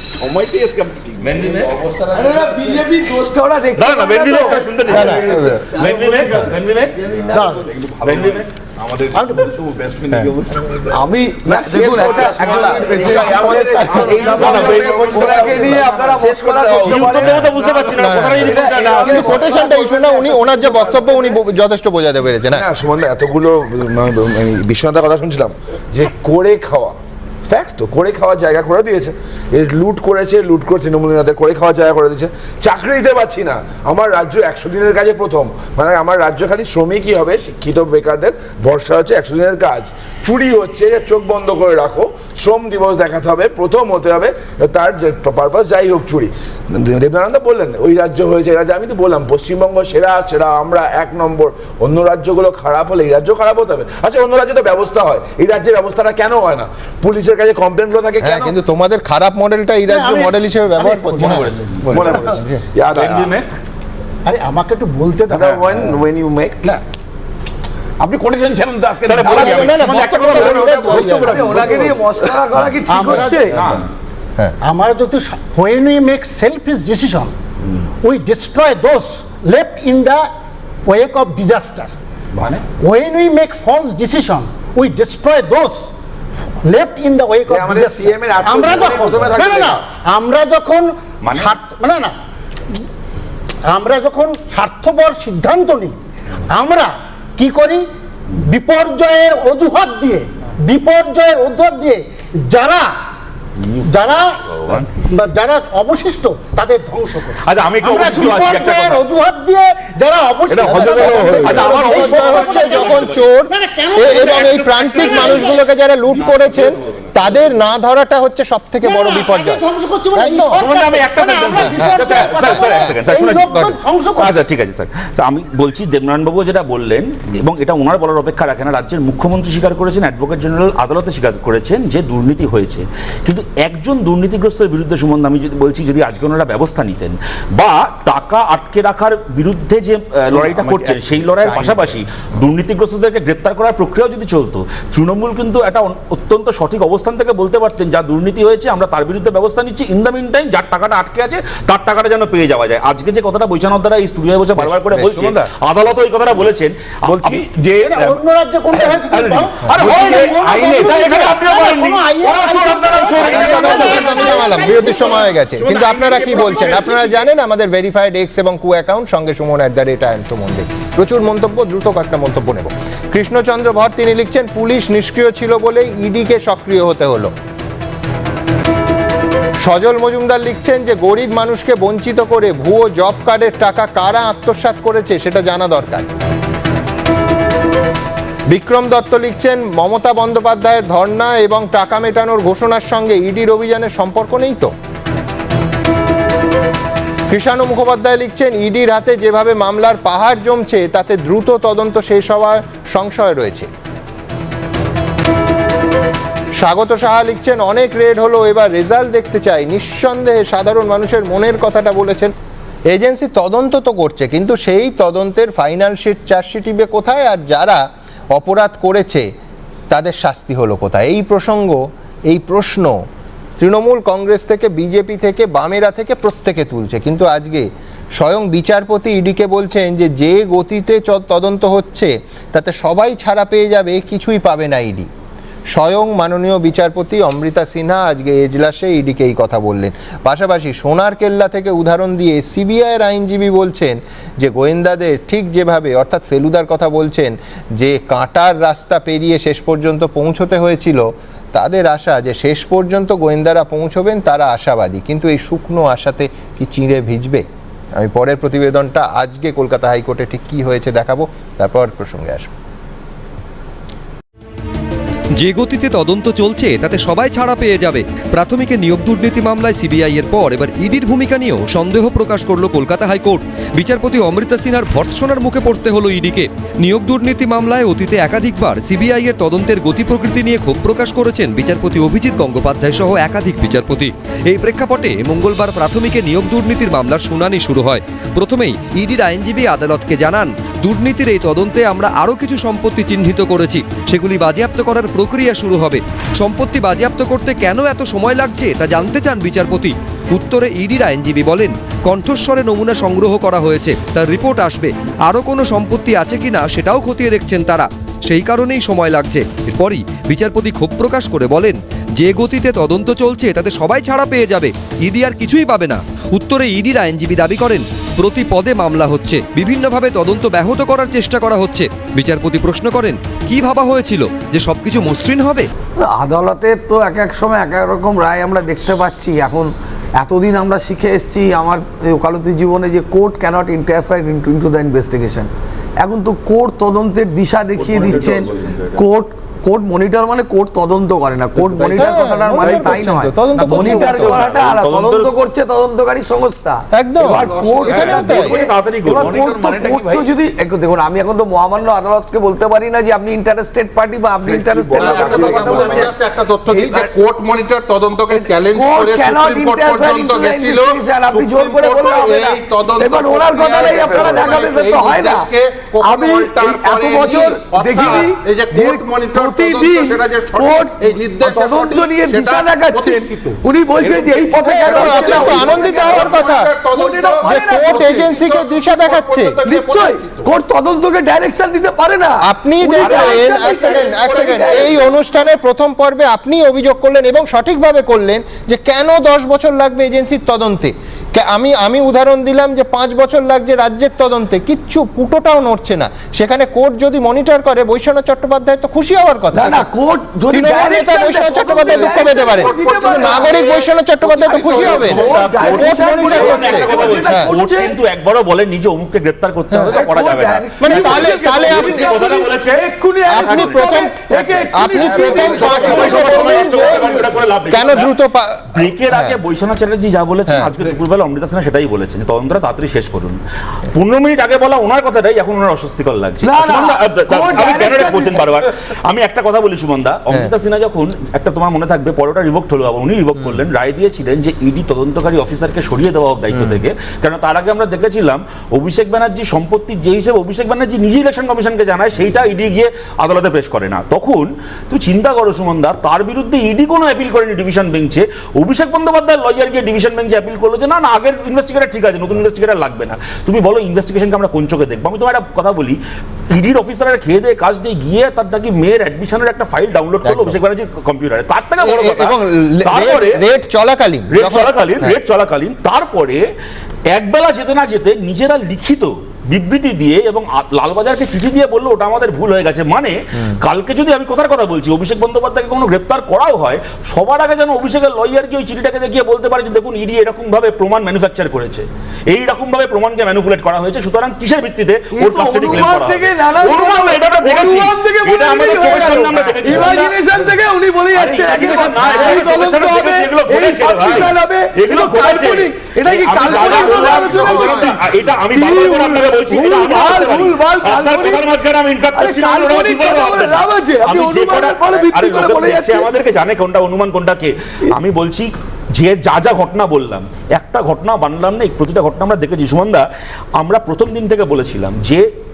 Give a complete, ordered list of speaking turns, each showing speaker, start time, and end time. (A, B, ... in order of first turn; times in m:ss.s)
0:00.2-0:03.1 A
0:01.2-0:01.8 B
0:02.1-0:06.3 C
0:03.8-0:07.0 B
0:04.4-0:17.8 A
0:04.8-0:05.7 D
0:06.9-0:07.6 C
0:07.3-0:07.7 E
0:08.0-0:08.5 B
0:09.1-0:09.5 E
0:10.9-0:21.3 C
0:13.9-0:15.4 B
0:16.8-0:19.3 B
0:17.2-0:22.6 D
0:18.6-0:19.6 A
0:22.5-0:58.6 A
0:58.2-1:02.6 D
0:59.9-1:01.5 E
1:01.2-1:02.1 B
1:01.9-1:03.4 A
1:02.9-1:03.4 B
1:04.2-1:06.0 E
1:05.3-1:06.7 A
1:08.0-1:12.5 A
1:09.0-1:11.0 B
1:09.2-1:11.7 D
1:11.1-1:13.6 C
1:12.9-1:13.8 E
1:13.5-1:13.9 B
1:14.6-1:17.3 E
1:18.0-1:20.3 E
1:20.8-1:21.9 E
1:22.8-1:25.9 E
1:26.6-1:32.2 E
1:27.5-1:29.8 A
1:31.2-1:31.6 B
1:33.7-1:36.0 E
1:36.5-1:42.9 E
1:43.8-1:55.6 E
1:44.5-1:44.9 B
1:47.4-1:49.0 B
1:50.5-1:53.2 B
1:50.6-2:00.6 D
1:54.0-1:55.6 B
1:58.8-2:04.4 E
2:00.6-2:38.0 B
2:01.6-2:02.9 D
2:20.3-2:22.0 A
2:34.6-2:35.4 D
2:37.1-2:38.1 A
2:37.8-2:45.2 E
2:38.8-2:40.9 A
2:39.6-2:44.7 B
2:43.3-2:57.3 D
2:45.8-2:47.0 F
2:59.6-3:06.1 D
3:08.5-3:14.7 D
3:17.3-3:23.7 D
3:26.6-3:32.3 D
3:32.9-3:39.3 D
3:39.9-3:43.0 D
3:43.6-3:55.1 D
3:55.7-4:22.5 D
4:25.4-5:25.7 G
5:26.0-5:35.5 C
5:36.0-5:56.2 C
5:37.8-5:39.0 B
5:42.0-5:44.4 D
5:43.6-5:45.3 B
5:46.9-5:48.5 D
5:47.3-5:48.4 F
5:47.9-5:50.2 B
5:49.2-5:50.0 F
5:54.4-5:56.1 A
5:54.9-6:20.5 F
5:56.7-5:57.1 C
5:58.3-6:18.3 C
6:14.6-6:16.7 D
6:17.4-6:19.6 D
6:19.6-6:25.0 C
6:22.4-6:39.9 D
6:23.0-6:25.0 F
6:39.5-6:48.0 C
6:40.5-6:47.5 D
6:41.7-6:43.8 F
6:44.6-6:52.8 B
6:49.7-6:50.0 D
6:49.8-6:57.3 C
6:50.8-6:52.1 D
6:53.2-6:54.1 D
6:54.3-6:54.6 B
6:54.7-6:59.4 D
6:55.2-6:58.2 B
6:58.7-7:03.4 B
7:00.5-7:00.7 D
7:03.9-7:43.4 B
7:06.4-7:08.7 C
7:16.5-7:16.8 D
7:40.2-7:40.6 D
7:41.8-7:45.2 D
7:44.3-7:46.4 B
7:47.1-8:10.3 B
8:05.1-8:21.5 C
8:11.1-8:33.0 B
8:16.4-8:18.1 F
8:22.1-8:26.1 C
8:33.6-8:35.3 B